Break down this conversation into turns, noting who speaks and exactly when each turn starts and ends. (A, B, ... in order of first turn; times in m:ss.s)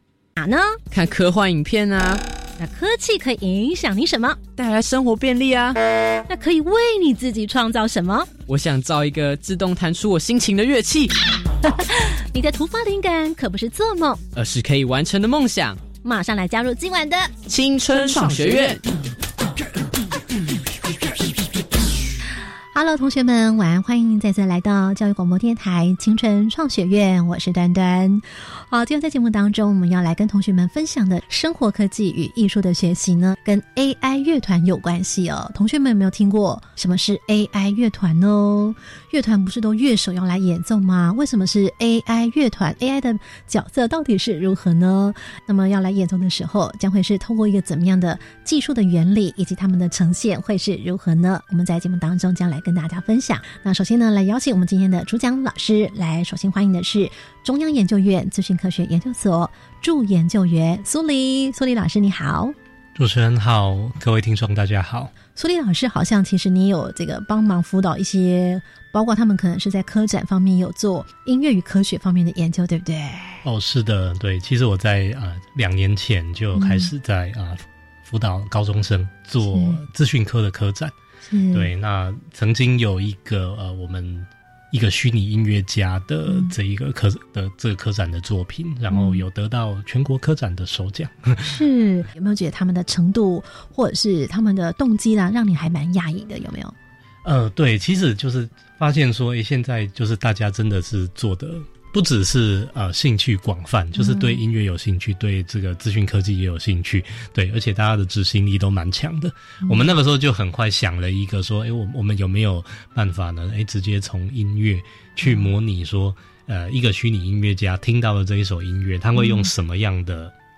0:00.4-0:00.8 A
0:00.9-0:02.2 B
0:02.6-0:04.4 A
0:04.6-0:05.8 B
0:06.3-0:08.3 A
0:08.5-0:11.2 B
0:11.6-0:14.2 A
0:14.3-0:15.8 B
0:16.0-0:17.3 A
0:17.5-0:18.9 B
0:22.8-1:02.6 A
1:03.0-1:05.1 C
1:05.4-1:13.4 A
1:13.4-1:20.9 C
1:16.6-1:16.9 A
1:19.4-1:19.8 A
1:21.3-1:21.7 A
1:21.5-1:31.6 C
1:26.3-1:26.5 A
1:28.9-1:29.2 A
1:31.4-1:36.7 A
1:37.2-2:00.3 C
1:44.0-1:44.4 A
1:55.2-1:55.5 A
1:59.2-1:59.5 A